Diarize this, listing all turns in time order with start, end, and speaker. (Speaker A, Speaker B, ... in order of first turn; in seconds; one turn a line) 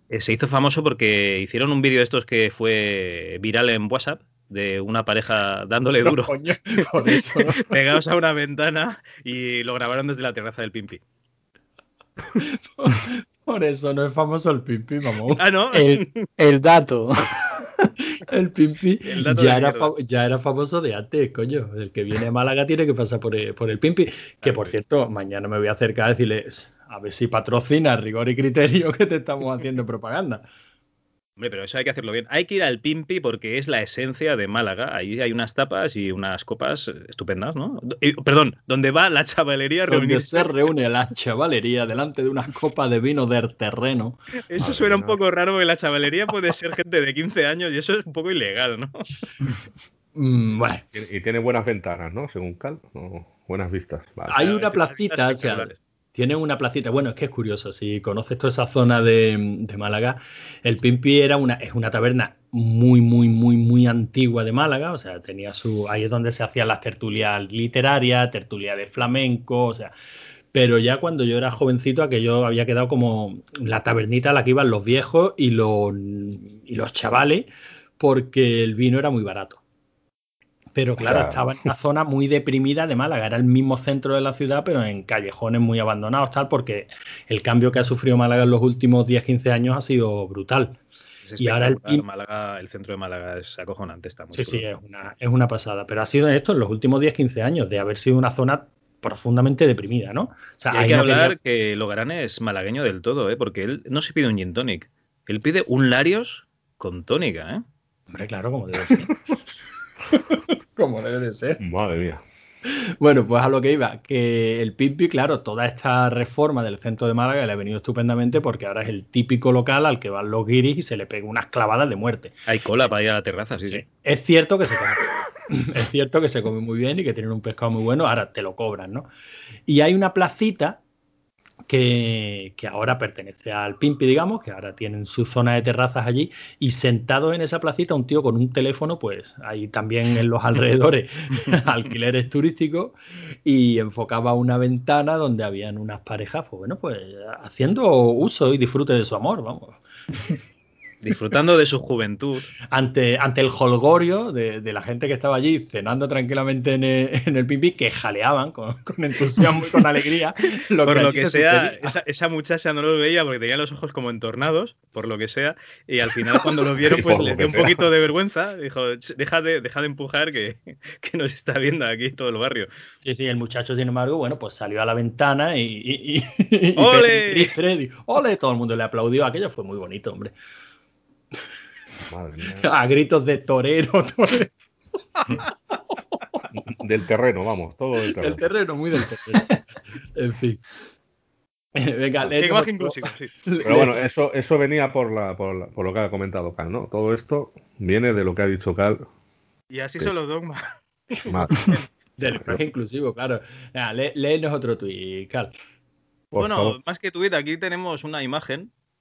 Speaker A: 0.1-6.3
Speaker B: 6.0-7.8
Speaker A: 7.0-11.0
Speaker B: 12.4-15.4
Speaker A: 15.4-16.2
Speaker C: 15.7-17.9
Speaker B: 18.2-30.4
Speaker A: 19.0-19.9
Speaker A: 24.4-24.8
Speaker A: 31.4-40.5
Speaker B: 39.9-44.2
Speaker A: 44.5-49.3
Speaker D: 44.6-45.2
Speaker B: 50.1-50.8
Speaker D: 50.9-54.4
Speaker B: 54.3-69.9
Speaker A: 54.4-55.8
Speaker B: 70.5-79.6
Speaker B: 80.8-90.8
Speaker D: 81.0-81.4
Speaker A: 91.3-94.6
Speaker B: 91.4-92.0
Speaker B: 94.3-101.4
Speaker A: 100.7-107.6
Speaker B: 108.1-109.2
Speaker B: 110.1-111.6
Speaker D: 111.6-112.2
Speaker B: 112.7-122.4
Speaker A: 122.5-123.8
Speaker B: 123.7-129.1
Speaker B: 129.7-130.8
Speaker B: 131.7-150.4
Speaker A: 151.0-152.5
Speaker B: 152.7-162.0
Speaker A: 160.8-172.7
Speaker B: 166.2-166.5
Speaker D: 166.8-167.9
Speaker B: 173.0-180.3
Speaker A: 176.8-177.5
Speaker D: 182.1-182.7
Speaker B: 182.6-184.5
Speaker B: 185.2-186.4
Speaker D: 186.5-188.4
Speaker B: 188.1-189.6
Speaker B: 190.2-190.6
Speaker B: 191.8-193.9
Speaker A: 192.4-193.3
Speaker D: 193.6-199.1
Speaker A: 199.7-201.8
Speaker D: 201.3-201.7
Speaker B: 202.2-205.5
Speaker D: 202.3-202.6
Speaker D: 206.3-206.8
Speaker A: 206.4-208.7